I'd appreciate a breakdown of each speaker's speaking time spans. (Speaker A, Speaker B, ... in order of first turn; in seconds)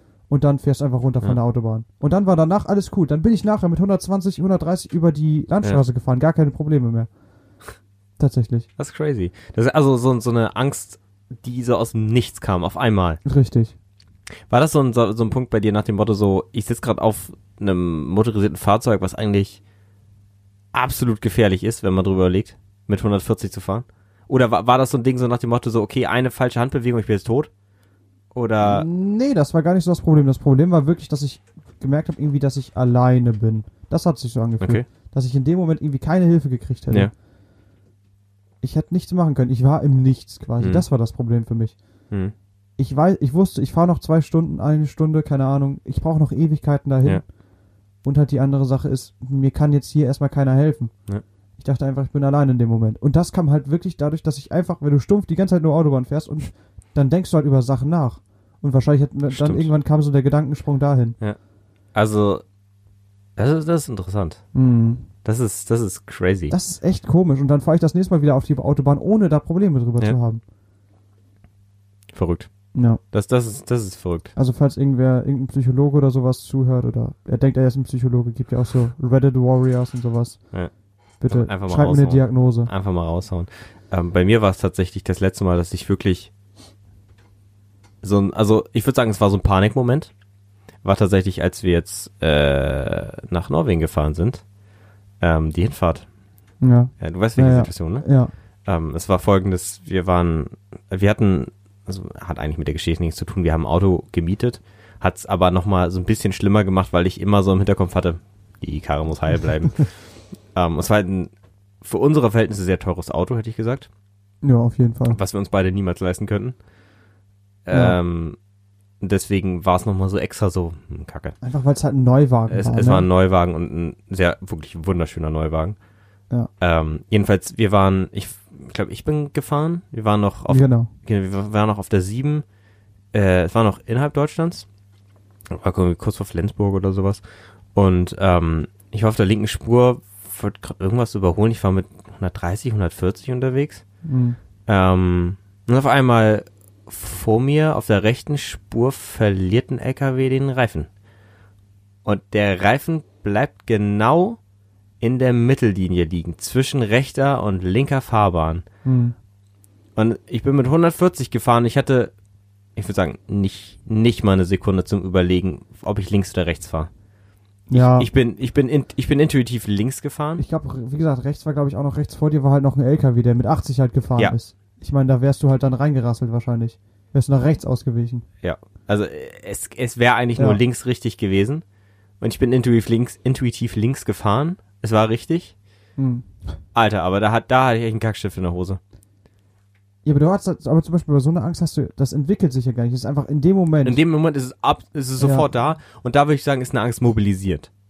Speaker A: 0.3-7.1, 8.2-8.7, 13.2-13.7, 28.6-37.1, 38.6-41.8, 42.8-47.2, 48.0-50.9, 51.6-61.2, 64.5-65.1, 66.5-70.4, 72.8-73.0, 74.4-80.4, 81.2-82.7, 96.6-98.3, 114.4-115.2, 117.7-118.0, 121.4-123.1, 130.5-130.9, 144.1-144.4, 158.8-159.2, 167.7-168.1, 170.4-178.2, 180.4-180.6, 186.0-186.3, 190.1-194.0, 195.2-195.5
Speaker B: 8.8-13.2, 14.5-19.6, 20.7-27.5, 28.3-28.9, 34.6-34.9, 40.6-40.9, 59.3-59.7, 62.0-62.4, 63.4-64.4, 65.2-66.5, 72.1-72.5, 73.1-74.3, 81.3-86.3, 88.0-90.1, 90.8-94.4, 95.2-96.1, 97.0-98.1, 98.7-110.0, 110.5-111.3, 111.8-113.9, 115.1-116.6, 117.7-118.4, 119.0-121.4, 122.5-125.8, 126.6-132.4, 133.1-134.7, 135.5-137.2, 137.8-143.8, 144.7-150.9, 152.1-154.4, 155.0-158.7, 160.0-162.1, 162.8-166.9, 167.7-170.4, 178.4-181.6, 182.2-185.6, 186.8-188.8, 193.8-197.7